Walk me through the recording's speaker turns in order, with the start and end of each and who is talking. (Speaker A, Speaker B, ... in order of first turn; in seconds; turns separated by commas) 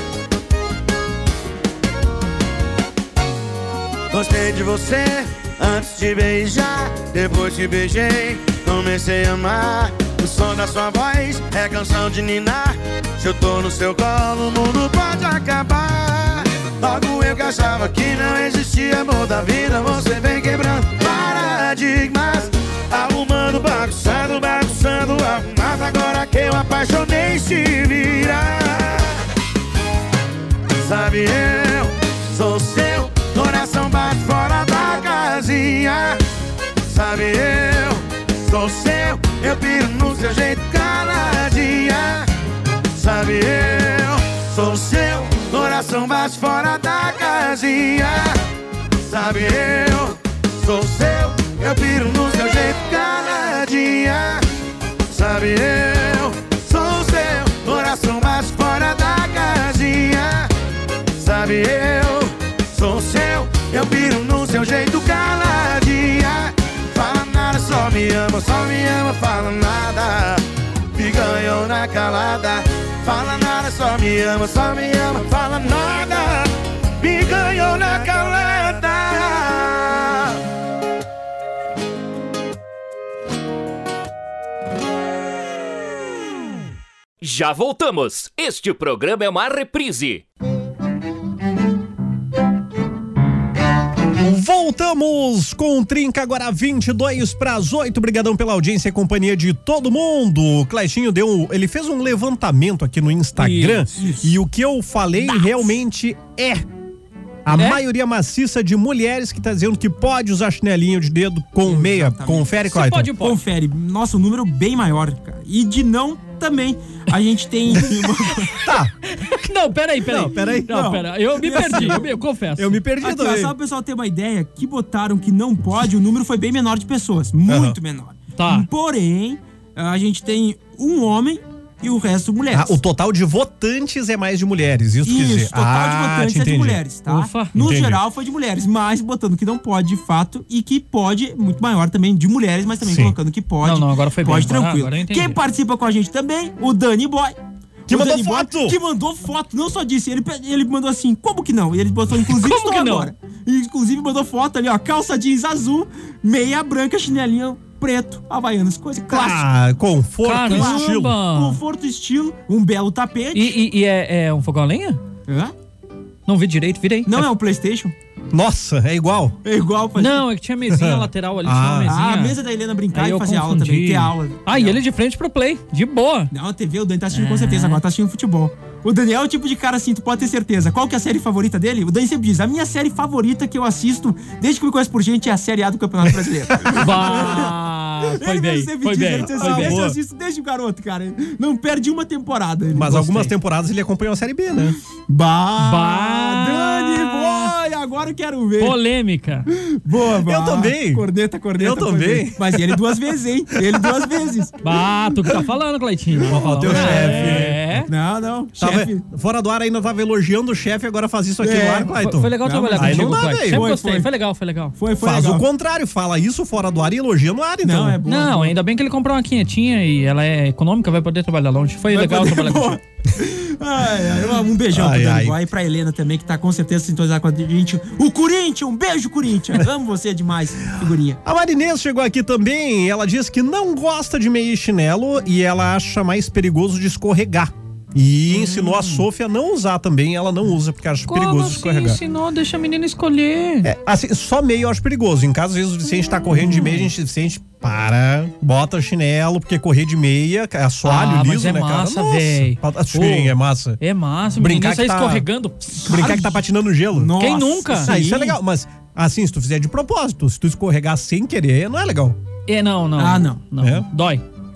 Speaker A: 4.1-29.2, Speaker A: 30.8-36.2, Speaker A: 36.9-42.3, Speaker A: 42.9-48.4, Speaker A: 49.0-54.4, Speaker A: 55.1-60.5, Speaker A: 61.1-70.4, Speaker A: 71.0-80.4, Speaker B: 87.2-90.2, Speaker C: 94.2-106.7, Speaker D: 103.4-103.9, Speaker E: 104.0-104.4, Speaker E: 105.3-105.7, Speaker C: 107.5-113.1, Speaker D: 107.5-107.8, Speaker E: 111.7-112.5, Speaker D: 112.7-113.4, Speaker E: 113.2-118.5, Speaker C: 118.6-118.9, Speaker D: 119.1-122.8, Speaker C: 120.0-121.0, Speaker E: 120.7-122.2, Speaker C: 121.6-122.0, Speaker C: 122.6-123.5, Speaker E: 123.0-132.8, Speaker C: 127.5-127.8, Speaker D: 128.4-128.7, Speaker C: 132.5-136.8, Speaker E: 135.0-147.4, Speaker D: 137.1-137.7, Speaker C: 137.6-138.0, Speaker C: 142.8-143.2, Speaker D: 143.6-145.4, Speaker E: 147.9-159.5, Speaker C: 147.9-148.8, Speaker D: 152.3-153.1, Speaker C: 159.1-161.2, Speaker D: 160.2-161.6, Speaker E: 160.4-163.6, Speaker D: 163.3-165.0, Speaker E: 165.3-165.5, Speaker D: 166.3-167.3, Speaker E: 167.1-167.9, Speaker C: 168.3-169.4, Speaker E: 169.4-170.2, Speaker D: 170.0-172.4, Speaker C: 170.7-171.9, Speaker E: 171.9-174.8, Speaker D: 172.9-176.3, Speaker E: 176.3-193.3, Speaker D: 177.1-177.8, Speaker C: 186.2-186.9, Speaker D: 186.8-189.8, Speaker C: 189.3-190.0, Speaker C: 192.7-194.8, Speaker E: 195.1-198.8, Speaker D: 195.6-197.5, Speaker D: 198.6-199.5, Speaker E: 199.7-204.5, Speaker C: 200.2-201.1, Speaker C: 201.6-203.0, Speaker D: 204.6-207.9, Speaker C: 206.3-207.9, Speaker E: 206.6-209.0, Speaker C: 208.6-213.7, Speaker E: 211.4-214.1, Speaker D: 211.9-214.8, Speaker E: 214.8-215.5, Speaker C: 215.0-218.0, Speaker E: 217.6-218.6, Speaker D: 218.1-222.8, Speaker E: 221.9-231.2, Speaker C: 224.7-225.4, Speaker C: 231.2-242.0, Speaker D: 238.3-239.1, Speaker D: 241.1-243.7, Speaker C: 243.6-253.8, Speaker D: 246.4-246.9, Speaker D: 250.8-256.1, Speaker C: 254.4-255.3, Speaker E: 255.8-256.4, Speaker C: 255.9-257.2, Speaker E: 256.9-258.4, Speaker D: 257.2-258.0, Speaker C: 257.8-262.2, Speaker D: 262.5-264.2, Speaker E: 263.0-263.4, Speaker C: 263.6-263.9